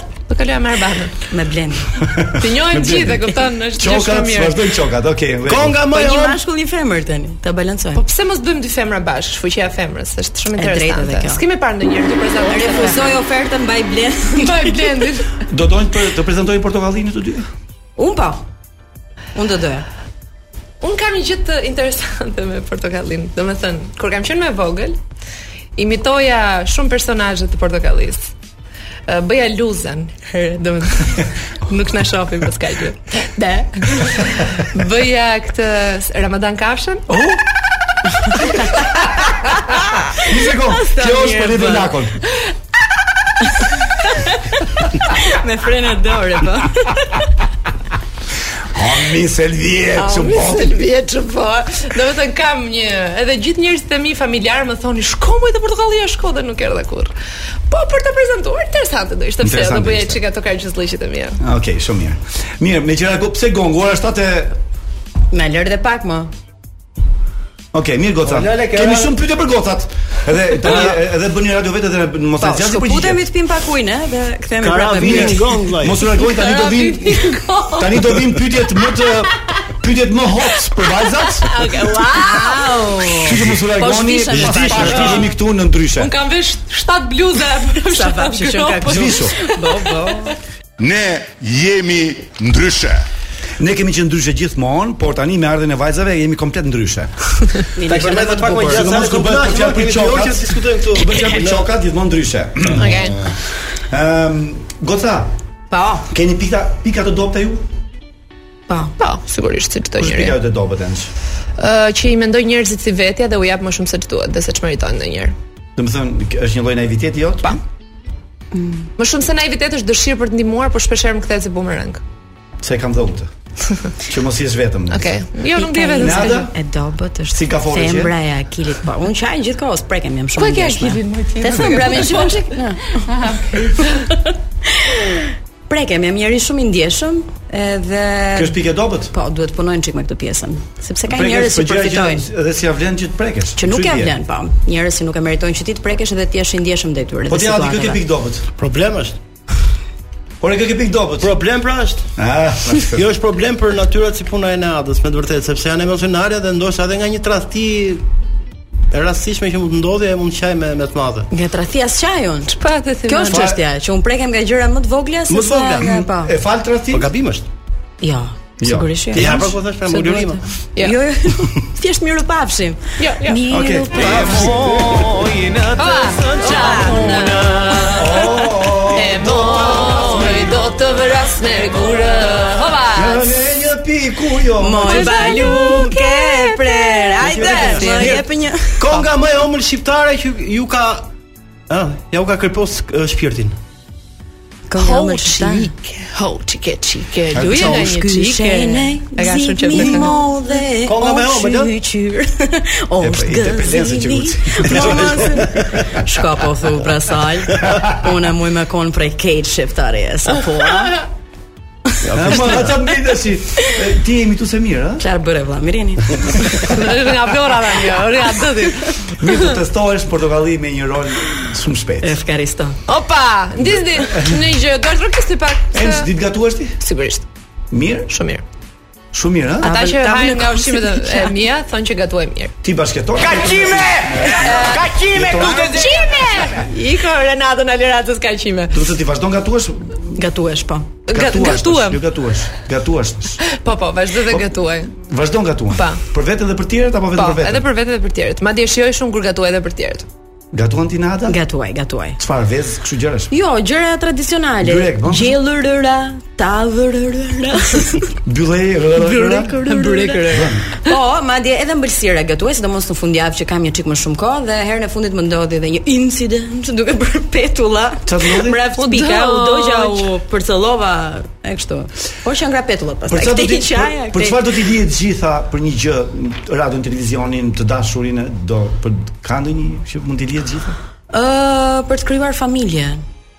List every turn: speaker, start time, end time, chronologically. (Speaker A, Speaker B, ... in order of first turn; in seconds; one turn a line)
Speaker A: 0.3-1.2
Speaker B: 1.3-2.1
Speaker C: 2.0-5.9
Speaker A: 2.4-4.6
Speaker D: 5.5-6.4
Speaker B: 5.9-8.1
Speaker A: 8.0-13.2
Speaker B: 10.5-11.4
Speaker B: 12.4-15.1
Speaker A: 14.4-15.3
Speaker C: 15.5-17.5
Speaker B: 18.0-18.4
Speaker B: 19.4-19.9
Speaker A: 20.8-25.0
Speaker A: 25.8-28.3
Speaker A: 29.1-37.1
Speaker C: 37.1-37.4
Speaker C: 40.1-42.2
Speaker B: 40.6-41.9
Speaker B: 45.3-47.1
Speaker C: 48.7-50.8
Speaker A: 49.9-57.1
Speaker A: 57.7-61.4
Speaker C: 59.4-60.2
Speaker C: 61.4-64.6
Speaker B: 65.3-66.3
Speaker C: 67.7-73.2
Speaker D: 68.2-69.1
Speaker B: 72.4-75.4
Speaker D: 74.6-76.1
Speaker C: 75.0-81.8
Speaker A: 76.2-78.0
Speaker A: 81.3-82.7
Speaker B: 82.1-85.2
Speaker C: 83.2-86.1
Speaker D: 84.3-85.3
Speaker A: 86.0-90.0
Speaker B: 87.8-90.3
Speaker C: 88.8-89.4
Speaker E: 90.8-93.0
Speaker C: 93.6-97.5
Speaker B: 97.8-98.9
Speaker D: 97.9-101.7
Speaker C: 98.3-103.1
Speaker D: 102.8-103.1
Speaker A: 102.8-103.2
Speaker C: 103.9-105.3
Speaker B: 105.7-106.1
Speaker C: 106.1-107.7
Speaker A: 109.0-110.4
Speaker C: 110.0-111.1
Speaker A: 111.6-115.3
Speaker C: 115.8-117.6
Speaker B: 118.5-118.9
Speaker A: 119.0-122.0
Speaker C: 122.6-123.3
Speaker C: 124.0-125.3
Speaker A: 124.9-126.5
Speaker B: 125.5-133.1
Speaker C: 126.0-126.5
Speaker C: 127.3-128.2
Speaker A: 130.4-134.0
Speaker B: 133.7-134.1
Speaker B: 134.7-138.5
Speaker C: 138.3-139.1
Speaker B: 139.1-142.2
Speaker C: 141.1-144.1
Speaker B: 143.6-148.0
Speaker C: 147.3-148.5
Speaker D: 148.6-149.2
Speaker C: 150.4-151.3
Speaker D: 151.2-152.1
Speaker C: 152.2-153.0
Speaker D: 152.9-158.0
Speaker D: 158.9-161.3
Speaker B: 161.3-166.3
Speaker A: 162.6-163.4
Speaker C: 163.3-163.6
Speaker D: 165.3-166.1
Speaker C: 166.1-167.1
Speaker D: 166.9-167.5
Speaker B: 168.0-174.6
Speaker C: 168.6-169.6
Speaker D: 169.1-170.4
Speaker A: 173.0-173.4
Speaker C: 173.5-175.1
Speaker D: 173.9-177.7
Speaker A: 175.7-178.3
Speaker B: 176.3-177.4
Speaker C: 177.9-180.5
Speaker A: 178.9-183.3
Speaker C: 182.9-185.3
Speaker B: 184.6-189.0
Speaker A: 184.9-188.2
Speaker D: 185.3-185.9
Speaker D: 187.2-188.2
Speaker D: 188.8-191.1
Speaker D: 191.7-193.6
Speaker B: 194.7-195.7
Speaker A: 194.8-200.2
Speaker C: 197.3-197.9
Speaker B: 197.4-211.0
Speaker D: 199.7-200.1
Speaker D: 200.8-201.7
Speaker C: 203.0-205.8
Speaker D: 204.7-205.6
Speaker D: 212.0-212.8
Speaker C: 212.1-215.1
Speaker B: 215.0-216.7
Speaker A: 216.7-219.6
Speaker C: 219.2-222.2
Speaker B: 222.0-222.8
Speaker A: 222.9-226.1
Speaker C: 223.6-224.4
Speaker C: 225.7-226.8
Speaker A: 226.8-227.2
Speaker C: 227.7-228.1
Speaker A: 228.1-228.4
Speaker C: 229.1-229.8
Speaker B: 229.6-231.4
Speaker A: 229.6-232.5
Speaker C: 232.6-236.6
Speaker A: 234.3-238.8
Speaker C: 238.7-240.1
Speaker B: 240.2-241.0
Speaker A: 241.1-242.0
Speaker C: 241.1-243.4
Speaker A: 243.4-244.9
Speaker C: 244.3-247.7
Speaker A: 245.7-246.0
Speaker A: 247.2-250.1
Speaker C: 250.5-251.4
Speaker B: 251.3-252.2
Speaker C: 252.2-253.3
Speaker B: 253.3-258.1
Speaker C: 254.6-255.4
Speaker C: 258.3-259.6
Speaker A: 259.1-260.9
Speaker B: 259.3-274.4
Speaker C: 260.3-260.6
Speaker C: 268.1-268.7
Speaker A: 268.8-270.1
Speaker C: 273.1-280.8
Speaker B: 281.1-283.0